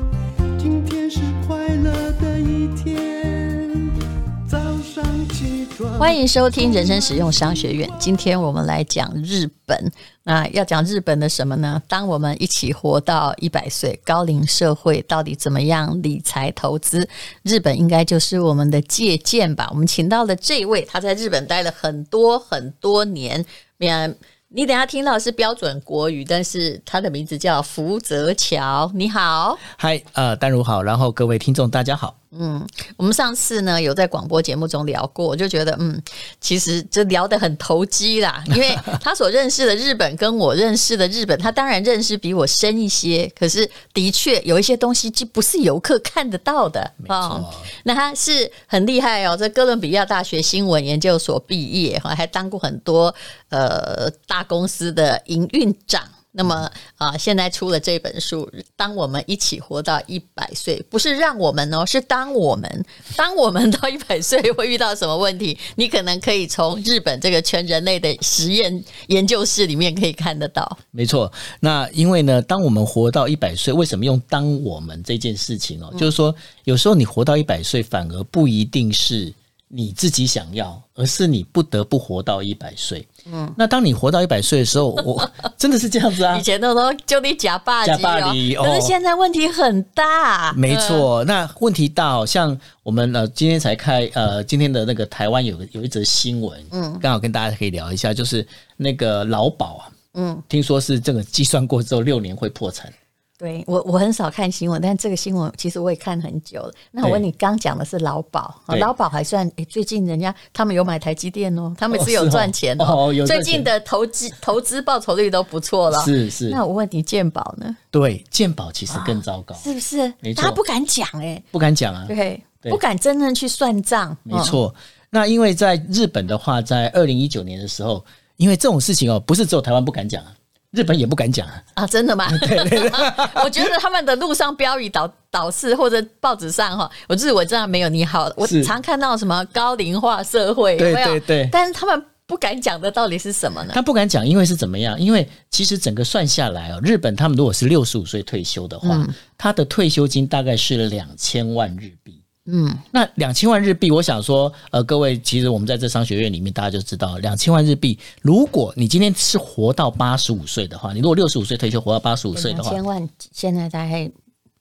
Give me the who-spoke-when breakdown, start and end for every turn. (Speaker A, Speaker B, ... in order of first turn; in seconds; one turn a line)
Speaker A: 0.6-4.0
Speaker A: 4.5-7.9
Speaker B: 6.0-29.6
Speaker C: 29.6-32.2
Speaker B: 32.3-70.8
Speaker C: 47.0-47.7
Speaker C: 70.9-86.5
Speaker B: 83.3-83.6
Speaker B: 86.3-91.1
Speaker C: 87.8-89.0
Speaker C: 90.5-99.9
Speaker B: 96.7-97.0
Speaker B: 100.1-100.4
Speaker C: 100.5-102.9
Speaker B: 103.4-117.8
Speaker C: 111.9-113.7
Speaker C: 115.9-116.6
Speaker C: 117.9-119.7
Speaker B: 118.9-121.5
Speaker C: 120.2-120.6
Speaker C: 121.5-122.1
Speaker B: 122.1-124.6
Speaker C: 124.3-131.6
Speaker B: 131.8-143.8
Speaker C: 132.3-133.7
Speaker C: 138.4-138.7
Speaker C: 140.8-141.5
Speaker C: 143.7-152.2
Speaker B: 148.8-149.2
Speaker B: 152.5-152.8
Speaker C: 152.9-162.8
Speaker B: 162.3-164.1